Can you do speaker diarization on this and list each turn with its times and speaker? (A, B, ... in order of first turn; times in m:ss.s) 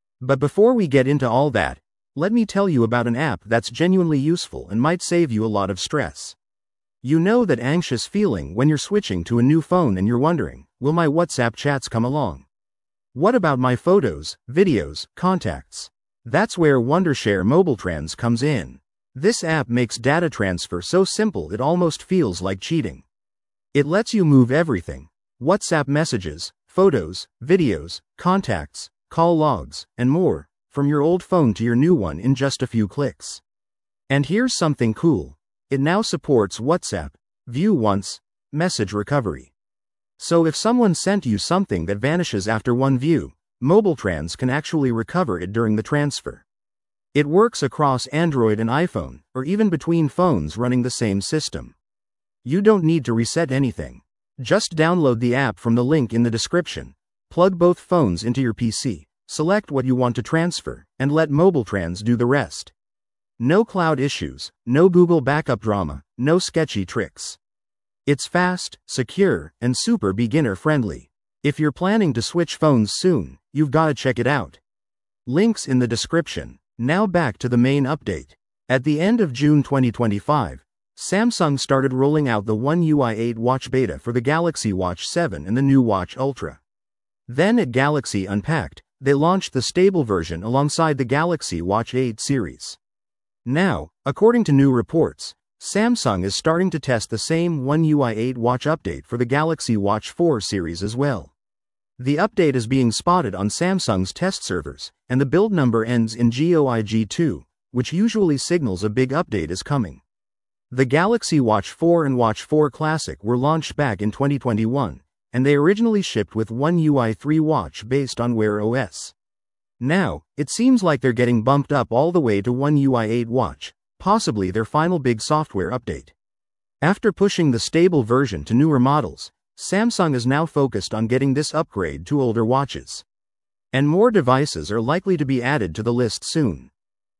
0:00.2-0:06.4 A
0:07.0-0:12.5 A
0:13.1-0:23.0 A
0:23.7-0:33.4 A
0:34.1-0:39.5 A
0:40.2-0:46.4 A
0:47.1-0:51.8 A
0:52.4-1:02.7 A
1:03.4-1:07.4 A
1:08.1-1:14.6 A
1:15.3-1:26.6 A
1:27.3-1:32.8 A
1:33.4-1:41.3 A
1:42.0-1:50.0 A
1:50.7-1:59.1 A
1:59.8-2:06.1 A
2:06.8-2:13.0 A
2:13.7-2:16.7 A